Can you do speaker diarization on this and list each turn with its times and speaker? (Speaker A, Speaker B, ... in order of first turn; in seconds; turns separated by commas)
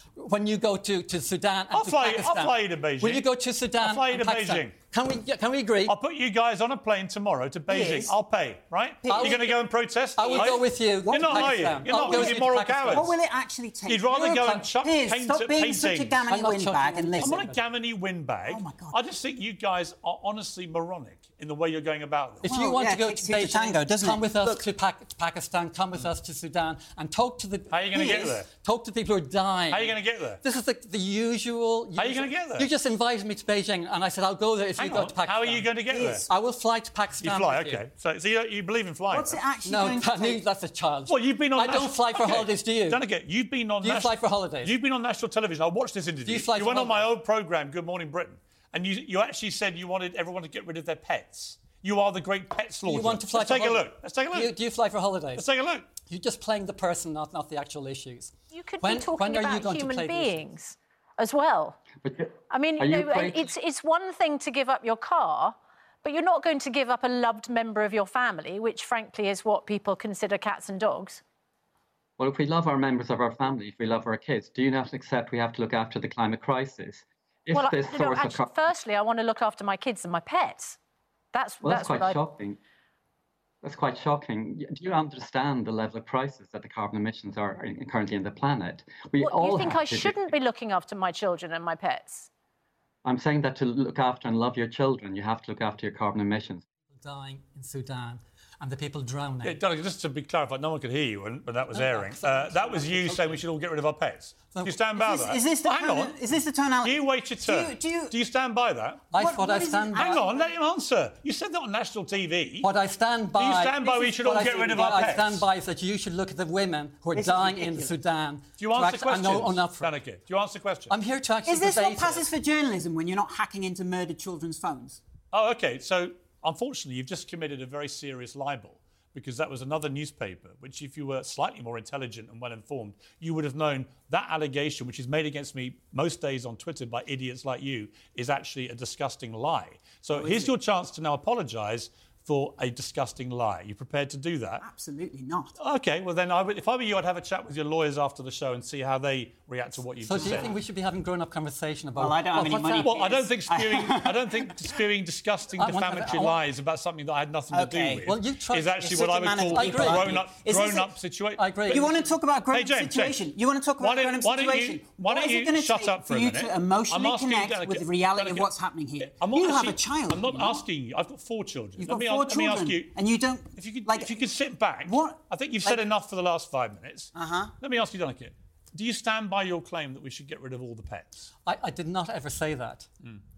Speaker A: 0.2-6.0, Speaker B: 1.7-3.3, Speaker B: 3.8-4.7, Speaker B: 5.9-13.2, Speaker C: 7.7-8.1, Speaker C: 9.0-9.6, Speaker A: 9.1-9.6, Speaker A: 10.2-13.2, Speaker C: 10.2-17.5, Speaker B: 13.9-16.2, Speaker A: 16.3-17.6, Speaker B: 17.2-22.5, Speaker C: 18.4-19.0, Speaker C: 22.4-24.6, Speaker A: 22.4-37.9, Speaker B: 27.7-28.5, Speaker C: 27.9-28.4, Speaker B: 29.7-30.4, Speaker B: 32.0-32.7, Speaker B: 34.8-36.3, Speaker C: 35.9-36.2, Speaker B: 37.2-39.4, Speaker C: 39.1-40.4, Speaker A: 39.6-43.0, Speaker B: 41.1-54.6, Speaker A: 43.8-44.8, Speaker A: 46.3-47.1, Speaker A: 52.9-55.5, Speaker B: 55.4-55.9, Speaker A: 56.1-60.5, Speaker D: 58.5-61.8, Speaker E: 62.0-63.5, Speaker D: 62.5-71.2, Speaker E: 72.2-78.7, Speaker D: 77.5-80.8, Speaker D: 81.3-82.2, Speaker E: 81.6-82.6, Speaker E: 83.6-90.2, Speaker D: 89.2-92.3, Speaker E: 93.0-96.6, Speaker A: 97.0-99.6, Speaker B: 99.4-106.2, Speaker A: 101.7-103.4, Speaker A: 104.5-104.8, Speaker C: 104.9-108.2, Speaker B: 106.8-109.1, Speaker A: 109.1-110.3, Speaker C: 109.1-110.4, Speaker B: 109.9-112.7, Speaker A: 112.6-119.9, Speaker B: 113.3-115.5, Speaker C: 117.1-118.0, Speaker B: 118.6-121.0, Speaker A: 120.9-122.3, Speaker C: 121.5-125.0, Speaker B: 125.3-144.7, Speaker C: 140.2-140.5, Speaker C: 144.6-145.6, Speaker B: 145.6-150.5, Speaker A: 150.0-152.9, Speaker C: 150.2-150.6, Speaker C: 152.0-154.7, Speaker B: 152.4-161.8, Speaker A: 155.6-156.4, Speaker C: 157.5-158.1, Speaker A: 158.1-160.3, Speaker C: 158.8-160.9, Speaker A: 161.4-162.2, Speaker C: 161.7-170.7, Speaker B: 162.5-163.3, Speaker B: 163.8-172.9, Speaker C: 171.8-174.3, Speaker B: 173.6-181.3, Speaker C: 174.8-175.8, Speaker C: 177.2-177.5, Speaker A: 181.5-182.9